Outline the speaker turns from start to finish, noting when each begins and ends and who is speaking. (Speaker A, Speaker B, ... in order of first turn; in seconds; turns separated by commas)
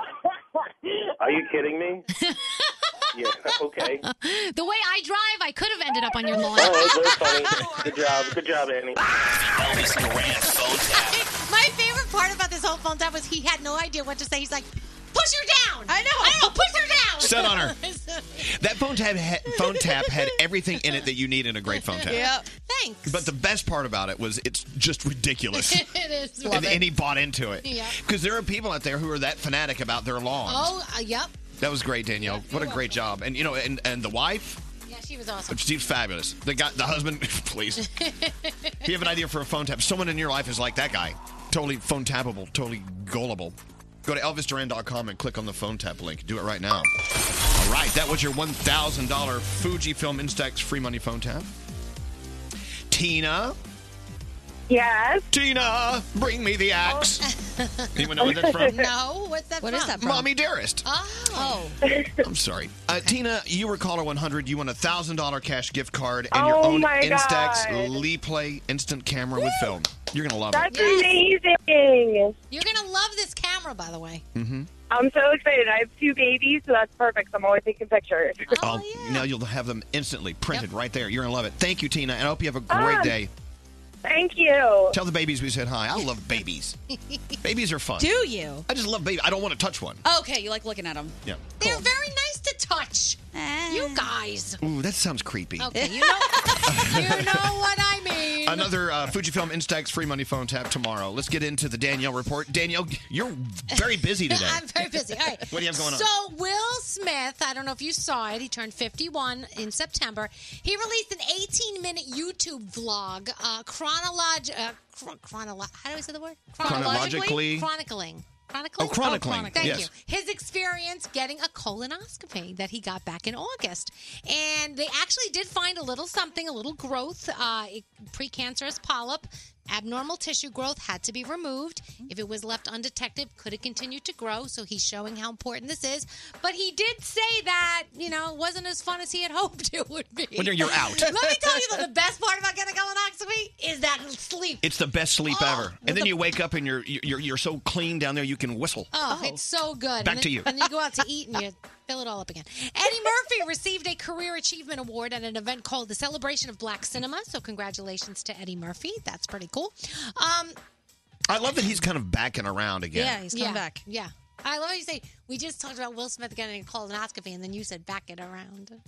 Speaker A: 1.2-2.0, Speaker B: 2.1-2.8, Speaker A: 3.1-4.0, Speaker B: 4.0-7.8, Speaker A: 6.4-9.0, Speaker C: 9.2-11.2, Speaker B: 11.1-18.5, Speaker D: 15.9-16.6, Speaker E: 17.2-17.8, Speaker E: 18.4-22.3, Speaker B: 21.8-23.3, Speaker D: 22.1-22.5, Speaker E: 23.1-25.9, Speaker B: 25.6-26.9, Speaker E: 26.4-30.8, Speaker B: 27.6-28.0, Speaker B: 30.5-31.4, Speaker E: 31.6-34.6, Speaker B: 32.2-33.0, Speaker B: 34.8-35.6, Speaker E: 35.5-37.9, Speaker B: 37.8-38.8, Speaker E: 38.8-46.9, Speaker E: 47.5-51.5, Speaker E: 52.9-53.6, Speaker F: 54.7-55.3, Speaker E: 55.3-57.3, Speaker B: 57.2-60.2, Speaker E: 58.0-58.9, Speaker F: 58.2-58.7, Speaker D: 59.6-60.3, Speaker E: 60.0-60.9, Speaker B: 60.8-61.7, Speaker D: 61.3-61.8, Speaker E: 62.2-71.0, Speaker F: 66.3-68.0, Speaker F: 70.5-72.4, Speaker B: 70.7-71.2, Speaker B: 72.5-74.2, Speaker E: 74.3-74.7, Speaker F: 74.9-78.5, Speaker B: 78.5-79.3, Speaker E: 78.5-83.3, Speaker F: 82.7-83.2, Speaker F: 84.0-85.0, Speaker E: 84.9-86.8, Speaker B: 86.9-87.4, Speaker E: 87.4-88.1, Speaker D: 88.0-88.7, Speaker E: 88.7-90.0, Speaker D: 90.0-91.9, Speaker B: 91.6-94.6, Speaker D: 93.3-94.1, Speaker E: 94.6-95.7, Speaker B: 95.6-98.7, Speaker D: 95.7-97.0, Speaker E: 96.7-97.5, Speaker E: 98.4-104.7, Speaker B: 104.3-144.6, Speaker E: 105.4-106.1, Speaker E: 116.6-117.7, Speaker E: 118.8-119.9, Speaker E: 140.4-141.5, Speaker E: 144.6-148.9, Speaker B: 145.3-146.1, Speaker B: 148.9-160.6, Speaker D: 149.1-149.4, Speaker E: 150.0-150.5, Speaker E: 161.3-163.2, Speaker D: 162.9-163.8, Speaker B: 163.3-168.8